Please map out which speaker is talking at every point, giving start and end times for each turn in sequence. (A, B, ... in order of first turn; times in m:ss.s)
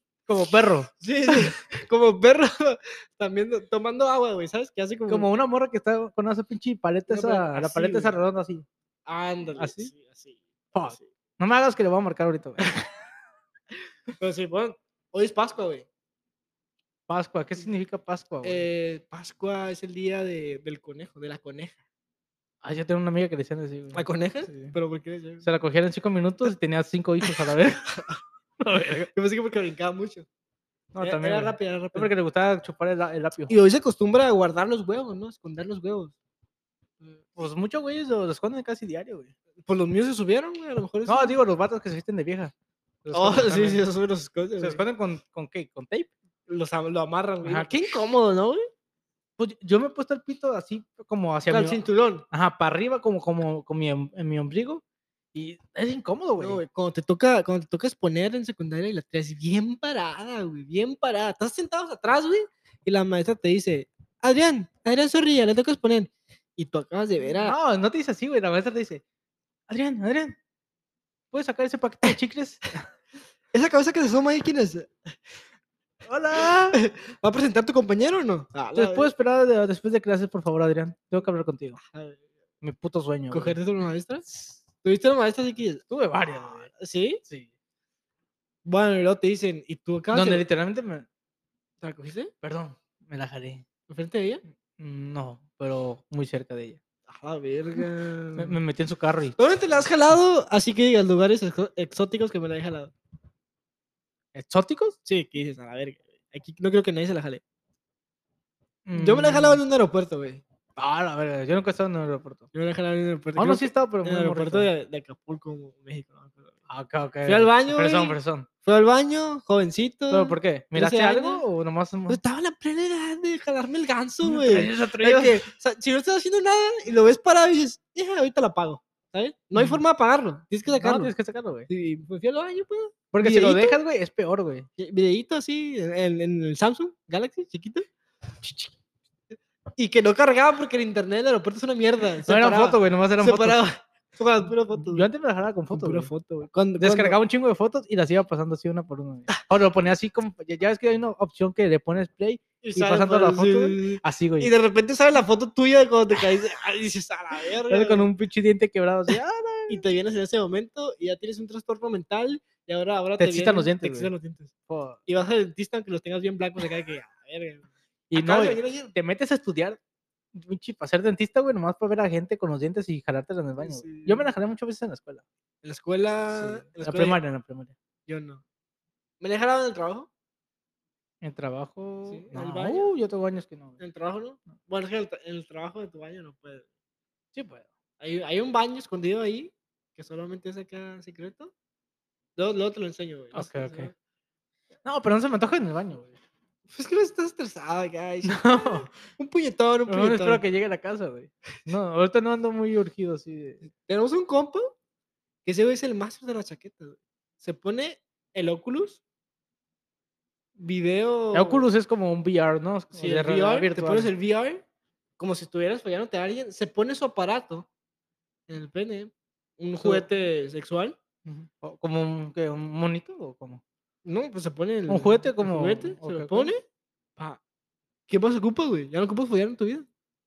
0:00.3-0:01.5 A
0:01.0-0:05.3 B
0:05.1-0:08.7 A
0:07.1-0:08.2 B
0:09.1-0:11.1 B
0:09.6-0:09.9 A
0:10.8-0:12.9 A
0:14.2-0:15.9 B
0:17.1-0:18.6 A
0:18.4-0:21.8 B
0:22.6-0:24.7 A
0:23.9-0:25.5 B
0:25.4-0:27.9 A
0:28.6-0:29.1 A
0:29.1-0:30.3 B
0:30.9-0:33.5 A
0:31.0-0:32.1 B
0:33.5-0:36.2 B
0:37.4-0:39.3 A
0:39.7-0:41.4 B
0:41.1-0:42.5 A
0:43.0-0:43.9 A
0:43.1-0:44.8 B
0:44.6-0:46.1 A
0:46.5-0:48.7 B
0:47.4-0:47.8 A
0:49.4-0:54.8 A
0:51.5-0:52.3 B
0:55.3-0:56.6 A
0:56.4-1:07.6 B
1:07.4-1:09.0 A
1:09.7-1:10.4 A
1:11.3-1:12.7 A
1:13.5-1:14.9 B
1:16.0-1:16.8 A
1:16.6-1:19.1 B
1:18.8-1:21.8 A
1:21.8-1:22.2 B
1:22.6-1:23.6 A
1:23.3-1:25.8 B
1:25.9-1:26.7 A
1:26.4-1:27.2 B
1:28.7-1:30.4 B
1:30.1-1:31.1 A
1:31.8-1:32.3 B
1:32.4-1:33.6 A
1:33.9-1:34.4 B
1:34.8-1:36.8 A
1:37.1-1:38.6 B
1:38.4-1:39.4 A
1:39.4-1:42.9 B
1:44.3-1:45.0 A
1:45.0-1:47.4 B
1:48.9-1:49.6 A
1:49.0-1:50.4 B
1:50.8-1:52.5 A
1:52.5-1:56.6 B
1:53.4-1:54.7 A
1:56.7-1:58.5 A
1:57.2-2:01.4 B
2:00.1-2:02.2 A
2:02.1-2:11.1 B
2:04.2-2:05.5 A
2:09.6-2:09.8 A
2:10.7-2:11.7 A
2:11.7-2:13.8 B
2:13.1-2:14.7 A
2:14.8-2:17.9 B
2:18.4-2:18.7 A
2:19.8-2:25.1 B
2:22.3-2:23.6 A
2:24.8-2:26.1 A
2:25.7-2:27.2 B
2:26.8-2:34.5 A
2:32.6-2:38.1 B
2:37.7-2:39.8 A
2:39.7-2:44.5 B
2:43.2-2:44.1 A
2:44.7-2:45.0 A
2:45.1-2:48.9 B
2:48.1-2:49.8 A
2:50.3-2:55.2 A
2:53.6-2:54.3 B
2:55.6-2:57.2 B
2:56.3-2:57.7 A
2:58.1-2:58.4 B
2:59.2-3:00.1 B
3:01.2-3:03.8 A
3:02.1-3:02.9 B
3:03.8-3:06.7 B
3:07.4-3:07.7 A
3:08.0-3:11.5 B
3:12.4-3:13.9 B
3:13.3-3:13.9 A
3:14.8-3:16.2 A
3:16.7-3:20.4 B
3:18.3-3:18.9 A
3:19.9-3:23.6 A
3:23.7-3:24.7 B
3:25.4-3:29.0 B
3:30.6-3:31.7 B
3:31.3-3:34.1 A
3:33.0-3:34.6 B
3:35.2-3:37.7 B
3:38.5-3:41.0 B
3:39.8-3:40.1 A
3:41.2-3:43.6 A
3:44.0-3:46.6 B
3:44.9-3:46.5 A
3:48.1-3:49.9 B